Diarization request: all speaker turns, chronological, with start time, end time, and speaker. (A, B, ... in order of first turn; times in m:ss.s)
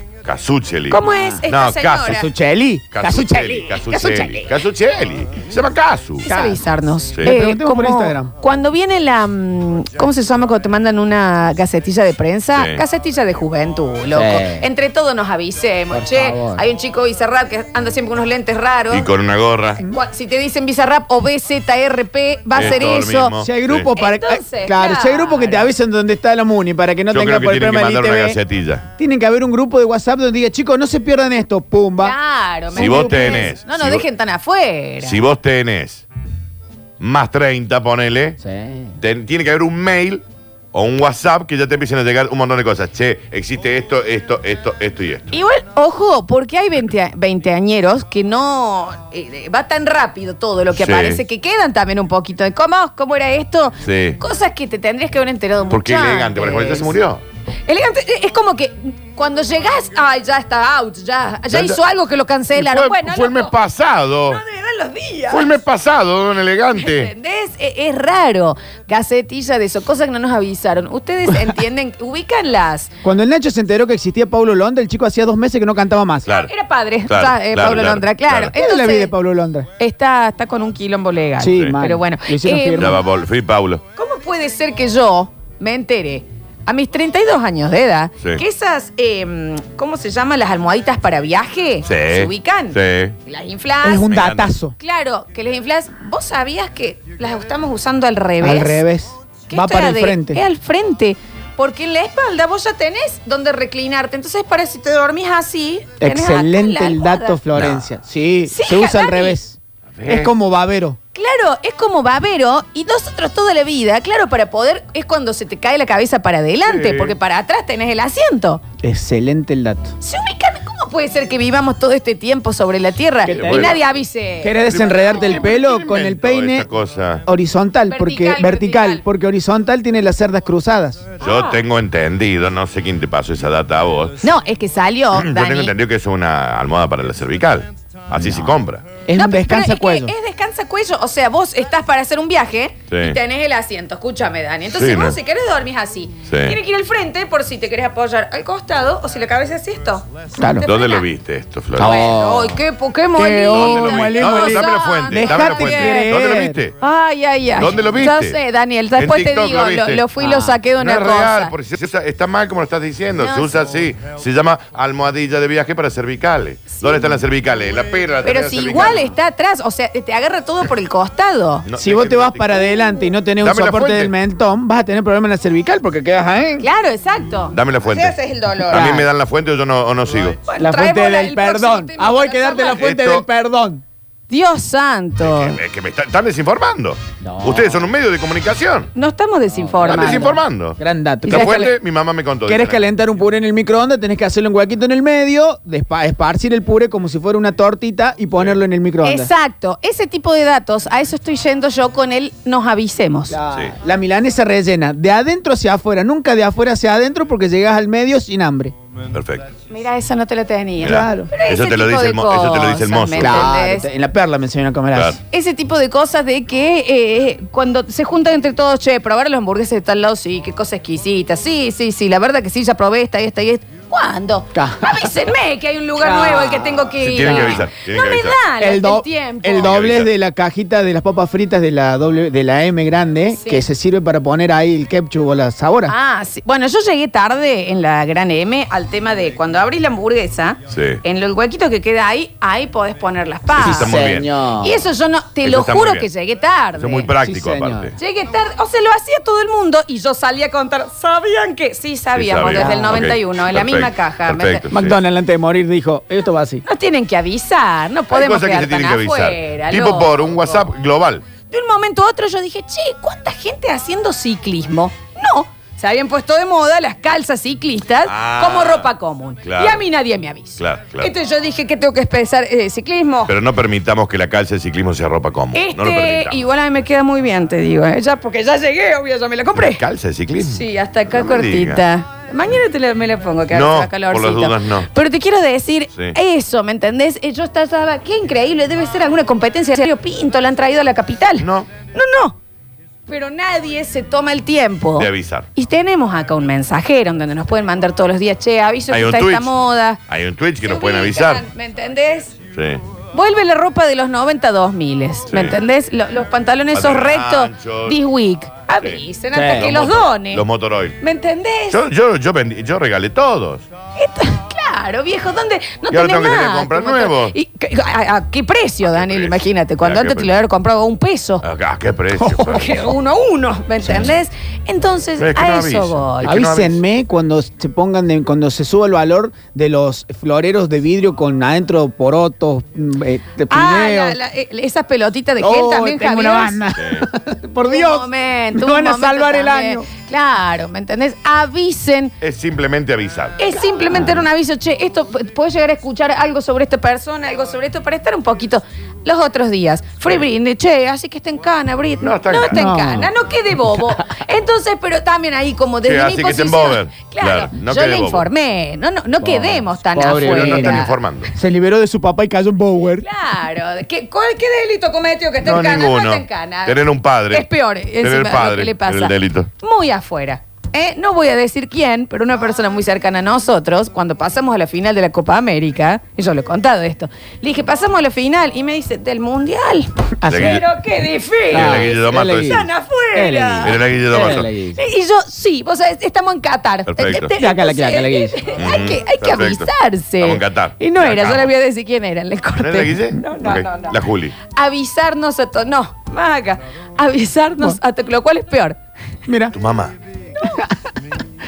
0:00.2-0:02.2 A
0:00.9-0:02.3 B
0:02.1-0:03.8 C
0:02.9-0:06.3 A
0:03.8-0:04.6 B
0:06.2-0:19.1 B
0:06.3-0:06.6 C
0:07.2-0:08.3 C
0:12.5-0:12.8 A
0:14.1-0:14.6 C
0:15.9-0:16.6 C
0:18.9-0:19.8 A
0:19.8-0:23.4 B
0:22.5-0:23.9 A
0:23.4-0:28.4 C
0:23.9-0:25.7 B
0:27.1-0:28.8 A
0:29.0-0:32.2 C
0:32.0-0:35.2 B
0:32.7-0:34.0 A
0:32.8-0:33.5 C
0:35.0-0:36.0 A
0:37.0-0:38.4 A
0:38.4-0:38.9 C
0:39.0-0:45.3 A
0:45.3-0:56.9 B
0:50.7-0:51.2 A
0:53.8-0:54.2 A
0:55.7-0:57.2 A
0:57.6-1:03.5 B
1:01.5-1:01.8 A
1:02.5-1:04.4 A
1:04.2-1:05.5 B
1:05.3-1:07.1 A
1:06.7-1:12.9 B
1:13.0-1:16.3 C
1:16.3-1:19.1 B
1:17.0-1:18.5 A
1:18.5-1:19.7 C
1:19.8-1:23.0 B
1:21.4-1:23.0 C
1:21.5-1:21.8 A
1:22.8-1:23.8 A
1:24.0-1:34.1 B
1:31.8-1:33.2 A
1:33.8-1:34.7 C
1:34.0-1:34.5 A
1:34.8-1:38.8 B
1:38.4-1:40.4 C
1:39.5-1:47.4 B
1:46.0-1:51.0 C
1:47.5-1:47.8 A
1:48.5-1:49.4 B
1:49.9-1:50.3 A
1:51.1-1:58.6 B
1:56.6-1:57.2 A
1:58.8-1:59.9 C
2:00.0-2:05.1 B
2:03.2-2:03.8 C
2:03.2-2:04.0 A
2:04.4-2:06.7 C
2:04.6-2:07.2 A
2:07.2-2:11.1 C
2:07.9-2:09.0 B
2:11.2-2:14.2 A
2:11.2-2:11.6 B
2:14.2-2:15.7 B
2:15.1-2:18.8 A
2:18.2-2:18.5 C
2:19.0-2:20.1 C
2:19.1-2:31.1 B
2:22.9-2:23.2 A
2:24.7-2:25.2 A
2:26.3-2:26.6 A
2:30.4-2:30.7 C
2:30.6-2:32.0 A
2:31.8-2:32.6 C
2:31.8-2:36.2 B
2:33.2-2:36.6 C
2:33.5-2:36.7 A
2:36.8-2:41.5 B
2:37.6-2:38.4 A
2:39.0-2:40.0 A
2:40.2-2:40.6 C
2:40.8-2:49.1 A
2:43.2-2:43.6 B
2:46.8-2:47.0 B
2:48.2-2:51.7 B
2:51.6-2:54.1 A
2:51.8-2:56.7 C
2:56.6-2:59.0 B
2:57.5-2:58.2 A
2:58.7-3:00.4 A
2:58.7-2:59.0 C
3:00.4-3:02.8 B
3:00.6-3:03.8 C
3:02.7-3:03.2 A
3:04.3-3:05.6 B
3:05.2-3:08.9 A
3:07.2-3:07.9 C
3:08.9-3:10.4 B
3:09.5-3:11.7 C
3:09.8-3:12.8 A
3:11.2-3:11.7 B
3:12.4-3:19.3 C
3:19.0-3:23.4 B
3:23.3-3:28.7 C
3:29.1-3:29.5 A
3:29.7-3:33.9 B
3:30.8-3:31.3 C
3:30.8-3:33.5 A
3:33.2-3:35.2 C
3:34.9-3:35.2 A
3:35.3-3:49.7 B
3:44.5-3:45.1 C
3:46.0-3:47.6 C
3:47.0-3:48.4 A
3:48.6-3:55.9 C
3:49.6-3:50.1 A
3:53.3-3:53.7 B
3:55.8-4:04.0 B
4:00.7-4:01.0 A
4:03.5-4:04.4 A
4:03.6-4:04.8 C
4:04.6-4:07.1 B
4:05.4-4:06.1 A
4:06.7-4:07.9 A
4:07.2-4:07.9 C
4:08.0-4:14.7 B
4:12.1-4:15.0 A
4:12.5-4:12.9 C
4:14.7-4:16.6 C
4:16.6-4:20.6 B
4:18.1-4:21.2 A
4:21.5-4:33.3 B
4:28.0-4:28.9 A
4:29.4-4:29.8 A
4:30.6-4:31.1 A
4:33.2-4:36.5 A
4:35.5-4:39.8 B
4:39.5-4:41.8 A
4:40.4-4:52.4 B
4:43.5-4:44.9 A
4:51.4-4:51.7 A
4:53.1-5:00.0 B
4:55.0-4:55.5 A
4:58.9-4:59.5 A
5:00.1-5:01.4 A
5:00.6-5:02.3 B
5:02.5-5:02.8 A
5:03.1-5:10.4 B
5:05.3-5:05.6 A
5:06.7-5:08.0 A
5:08.8-5:11.0 A
5:09.3-5:09.7 C
5:11.0-5:11.8 B
5:11.7-5:13.7 A
5:14.0-5:21.4 B
5:15.9-5:17.4 A
5:18.8-5:20.4 A
5:21.4-5:22.9 A
5:22.2-5:22.6 C
5:22.4-5:26.4 B
5:23.8-5:24.1 C
5:25.2-5:26.8 A
5:26.2-5:34.2 C
5:33.5-5:36.6 B
5:35.4-5:39.9 C
5:36.8-5:37.1 A
5:37.6-5:42.1 B
5:42.2-5:43.4 A
5:43.4-6:00.9 B
5:43.9-5:44.2 C
5:52.0-5:52.8 A
5:52.5-5:53.1 C
5:55.8-5:58.3 A
5:59.2-6:03.0 C
6:00.1-6:01.3 A
6:03.0-6:23.8 B
6:05.4-6:07.5 A
6:08.0-6:09.5 A
6:20.2-6:20.6 C
6:20.3-6:20.6 A
6:21.5-6:22.7 A
6:21.5-6:24.8 C
6:23.6-6:24.5 A
6:24.7-6:34.0 B
6:26.9-6:27.3 A
6:27.4-6:28.4 C
6:28.5-6:31.5 A
6:32.6-6:34.3 A
6:34.5-6:38.8 B
6:39.2-6:39.5 C
6:39.5-6:39.9 A
6:40.4-6:40.9 C